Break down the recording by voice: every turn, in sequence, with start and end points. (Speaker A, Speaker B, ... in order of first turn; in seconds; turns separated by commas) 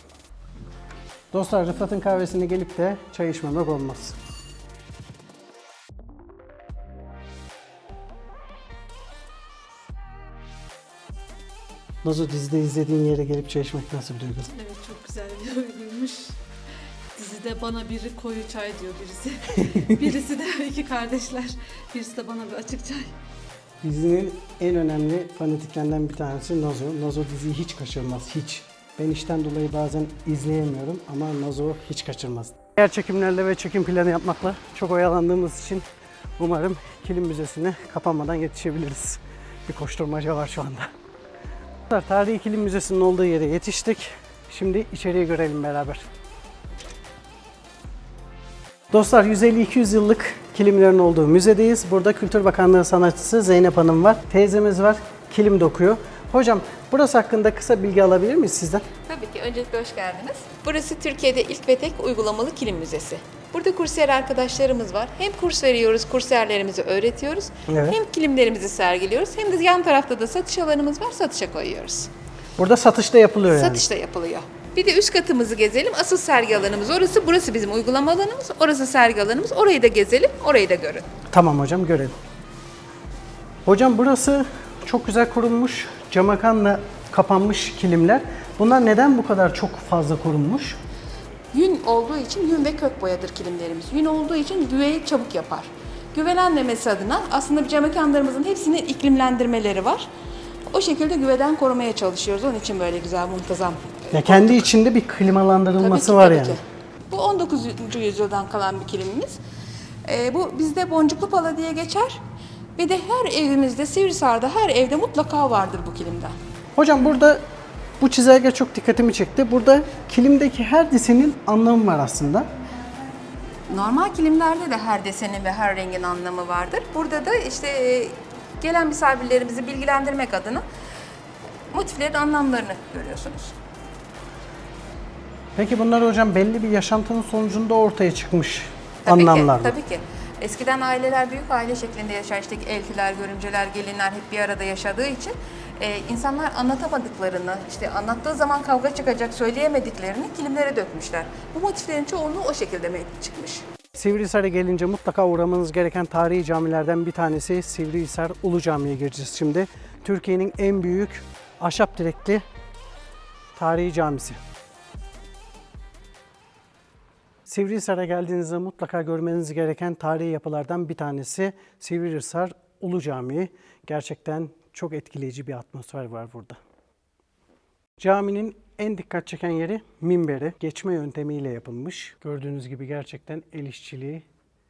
Speaker A: 1.3-4.2, Speaker A: 12.0-14.5, Speaker B: 14.5-16.3, Speaker B: 17.2-23.1, Speaker A: 19.6-20.0, Speaker A: 23.8-35.8, Speaker A: 36.4-40.9, Speaker A: 41.9-46.1, Speaker A: 48.9-58.8, Speaker C: 59.0-72.1, Speaker A: 67.7-68.0, Speaker A: 72.6-73.8, Speaker C: 73.5-81.0, Speaker A: 81.3-82.1, Speaker A: 83.6-90.8, Speaker C: 91.5-100.1, Speaker C: 100.7-104.6, Speaker A: 104.1-106.6, Speaker C: 105.8-109.4, Speaker C: 110.0-112.2, Speaker C: 112.8-116.3, Speaker A: 116.8-117.4, Speaker A: 118.0-122.5, Speaker C: 123.7-130.6, Speaker C: 131.7-133.5, Speaker A: 135.6-139.8, Speaker C: 139.1-153.6, Speaker A: 153.9-162.4, Speaker A: 163.6-164.4, Speaker A: 167.4-176.6, Speaker A: 178.0-184.2